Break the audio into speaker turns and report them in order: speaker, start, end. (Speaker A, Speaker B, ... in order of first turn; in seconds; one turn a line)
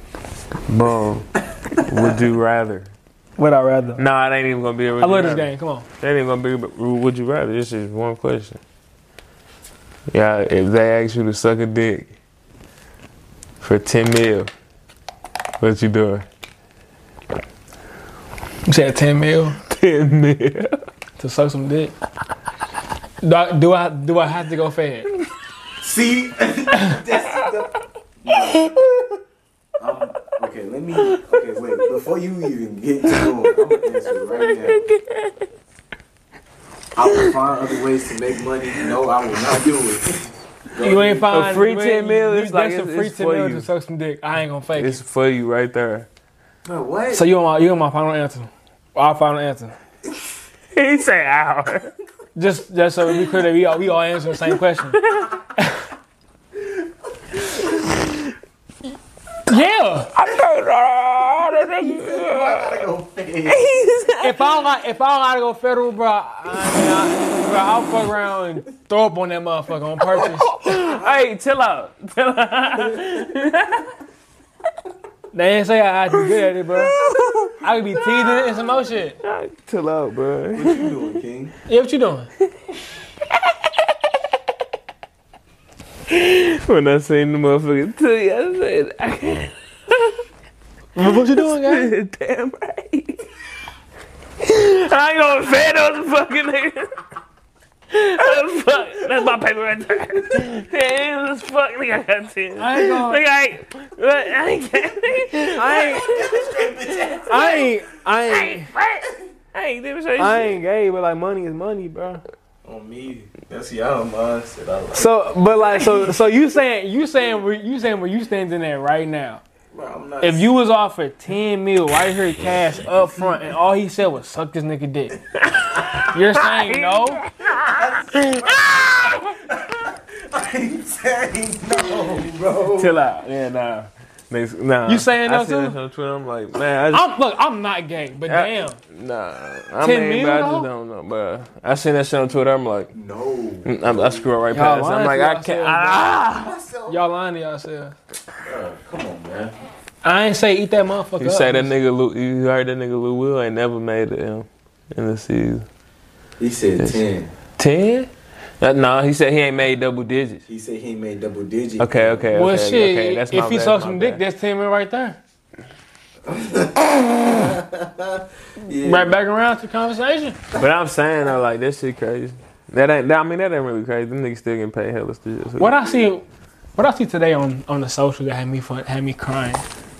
Speaker A: 0.7-2.9
Speaker B: 3.4-4.0
Speaker A: 4.0-5.5
Speaker B: 5.0-5.8
Speaker A: 6.0-8.6
Speaker A: 10.1-12.1
Speaker A: 13.6-14.5
Speaker A: 15.6-16.2
Speaker B: 18.7-19.6
Speaker A: 19.6-20.8
Speaker B: 21.2-21.9
Speaker B: 23.2-25.1
Speaker C: 25.8-28.8
Speaker C: 29.8-34.8
Speaker A: 34.1-35.5
Speaker C: 37.0-41.5
Speaker B: 40.8-45.0
Speaker A: 41.3-43.7
Speaker A: 44.7-46.1
Speaker C: 46.6-47.2
Speaker B: 47.1-49.7
Speaker A: 50.7-51.9
Speaker B: 52.3-55.0
Speaker A: 55.0-55.3
Speaker B: 59.5-60.1
Speaker A: 60.1-62.9
Speaker C: 61.7-63.6
Speaker A: 63.5-64.4
Speaker B: 64.2-70.5
Speaker A: 70.1-73.9
Speaker C: 70.7-71.2
Speaker B: 75.3-77.0
Speaker C: 76.9-77.5
Speaker A: 77.0-77.3
Speaker B: 77.6-79.2
Speaker A: 78.0-81.2
Speaker C: 80.5-81.5
Speaker B: 81.7-82.3
Speaker A: 86.1-90.2
Speaker B: 90.9-91.9
Speaker A: 91.0-93.2
Speaker A: 94.4-96.9
Speaker A: 97.9-107.7
Speaker B: 102.6-103.2
Speaker B: 105.4-106.3
Speaker C: 105.9-107.6
Speaker B: 107.2-108.7
Speaker A: 108.3-110.6
Speaker B: 110.2-112.2
Speaker C: 112.6-115.1
Speaker B: 114.9-119.4
Speaker C: 115.8-116.1
Speaker C: 119.7-120.5
Speaker B: 120.2-125.2
Speaker A: 125.4-129.3
Speaker B: 126.1-127.2
Speaker C: 127.5-132.9
Speaker A: 132.8-137.1
Speaker B: 134.8-135.8
Speaker B: 136.9-138.8
Speaker A: 138.3-142.9
Speaker B: 139.8-140.7
Speaker C: 142.9-144.3
Speaker A: 143.7-146.5
Speaker B: 144.5-146.0
Speaker C: 146.2-147.0
Speaker B: 146.9-147.9
Speaker C: 148.4-149.5
Speaker B: 150.0-151.7
Speaker A: 151.2-155.6
Speaker C: 156.4-157.3
Speaker A: 157.6-160.4
Speaker C: 160.5-162.3
Speaker A: 161.8-164.2
Speaker B: 162.3-165.2
Speaker C: 166.2-169.2
Speaker B: 168.8-170.4
Speaker A: 170.5-175.8
Speaker B: 175.6-176.2
Speaker B: 176.8-179.6